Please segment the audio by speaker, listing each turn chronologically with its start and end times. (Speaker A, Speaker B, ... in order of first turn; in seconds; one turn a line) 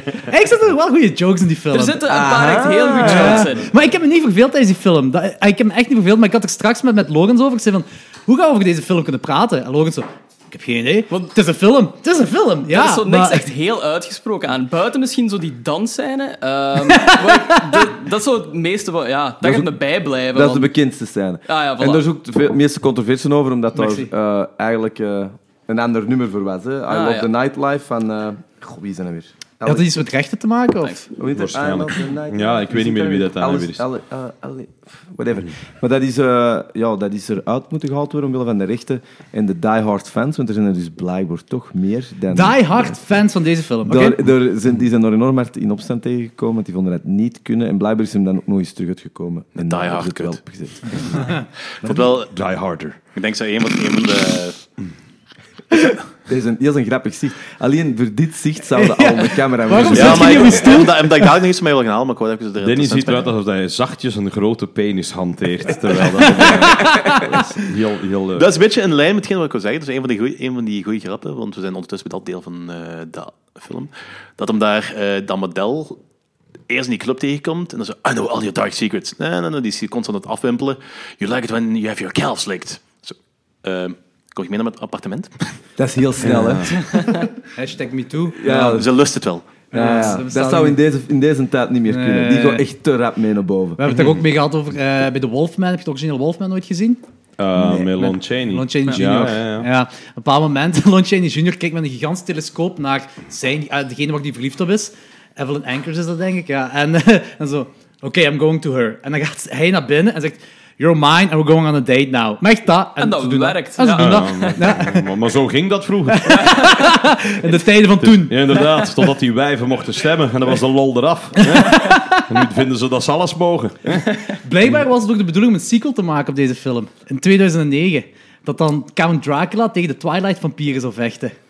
Speaker A: 0.2-2.0
Speaker B: 1.7-3.7
Speaker C: 2.0-3.5
Speaker A: 3.0-13.5
Speaker B: 12.7-20.7
Speaker A: 16.9-17.8
Speaker C: 19.4-19.7
Speaker C: 20.3-29.9
Speaker B: 21.5-22.0
Speaker A: 23.7-24.1
Speaker B: 26.9-27.3
Speaker A: 29.6-31.0
Speaker B: 30.8-31.1
Speaker C: 31.1-43.0
Speaker D: 31.3-33.8
Speaker A: 42.3-44.2
Speaker C: 43.8-52.0
Speaker E: 49.5-50.4
Speaker A: 51.2-51.4
Speaker E: 51.8-52.3
Speaker D: 51.9-53.0
Speaker E: 53.1-54.6
Speaker C: 56.3-60.9
Speaker A: 58.7-61.3
Speaker D: 59.8-60.4
Speaker E: 59.9-63.3
Speaker D: 62.6-68.5
Speaker A: 66.4-67.3
Speaker E: 68.3-76.0
Speaker E: 76.7-85.4
Speaker C: 85.8-86.8
Speaker D: 86.2-86.7
Speaker B: 86.8-87.3
Speaker A: 87.5-88.8
Speaker C: 88.3-88.9
Speaker E: 88.5-89.6
Speaker A: 89.7-90.8
Speaker C: 89.7-93.8
Speaker A: 91.9-92.6
Speaker A: 93.8-97.0
Speaker D: 93.9-94.1
Speaker D: 97.4-99.7
Speaker C: 97.5-97.9
Speaker A: 98.0-115.0
Speaker B: 113.0-114.8
Speaker D: 113.9-116.5
Speaker A: 116.1-118.7
Speaker D: 118.0-124.1
Speaker A: 121.7-122.2
Speaker A: 124.4-131.3